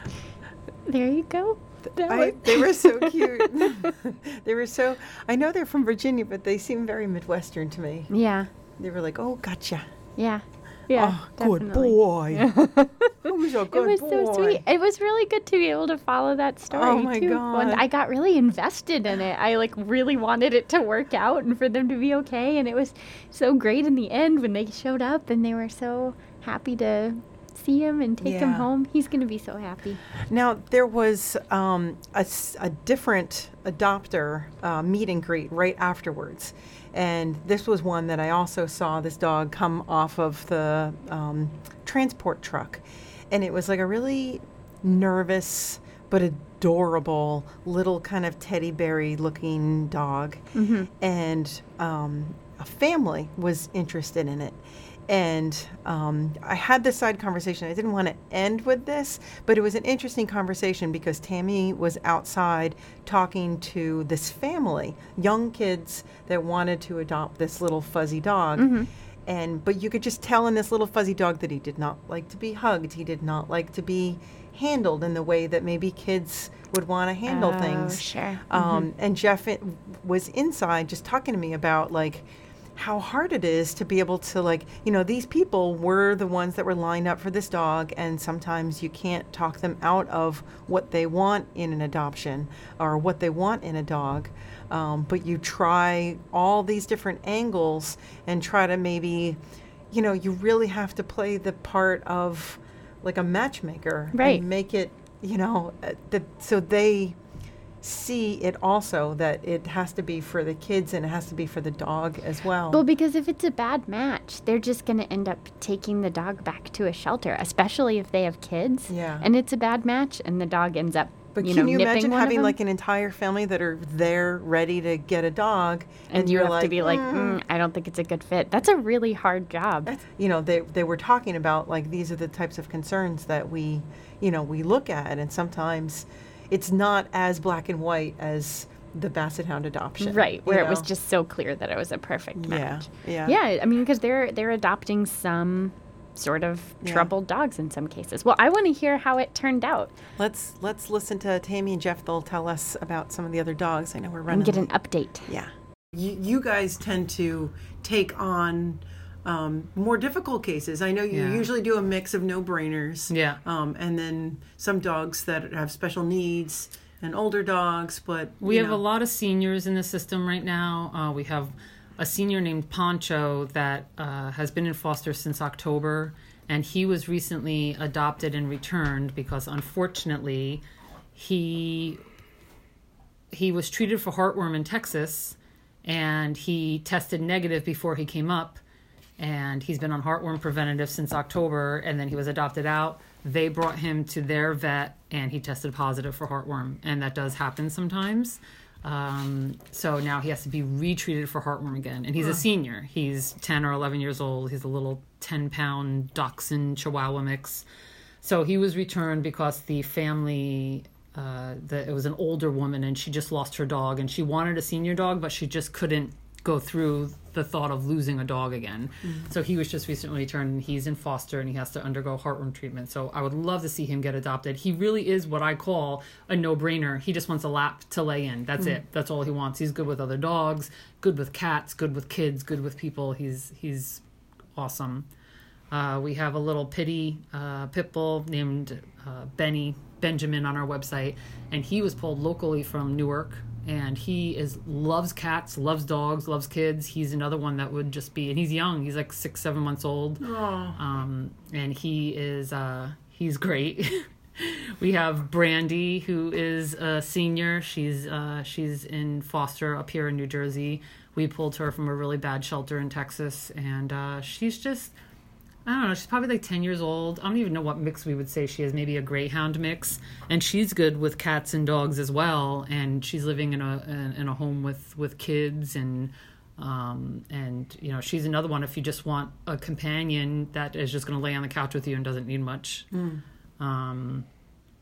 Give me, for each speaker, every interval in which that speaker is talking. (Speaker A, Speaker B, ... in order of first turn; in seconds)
Speaker A: 0.9-3.9, 8.1-8.5, 10.2-30.0, 50.5-50.9, 68.6-68.9, 77.3-78.9, 104.1-104.4, 112.7-122.6, 126.1-129.9, 140.0-150.0, 154.3-155.3
Speaker B: 2.0-8.1, 8.8-9.9, 10.9-14.6, 16.7-17.9, 28.2-28.7, 30.1-99.4, 99.9-107.2, 107.8-112.8, 118.9-119.3, 121.3-127.4, 129.9-140.9, 142.3-143.4, 146.8-147.1, 150.2-154.7, 155.3-168.8, 250.2-250.8, 282.9-283.2
Speaker C: 161.1-161.5, 163.1-163.4, 168.4-180.6, 181.2-182.0, 183.3-188.6, 189.2-207.7, 208.2-234.0, 234.6-235.1, 235.7-264.9, 265.7-282.9, 283.6-284.3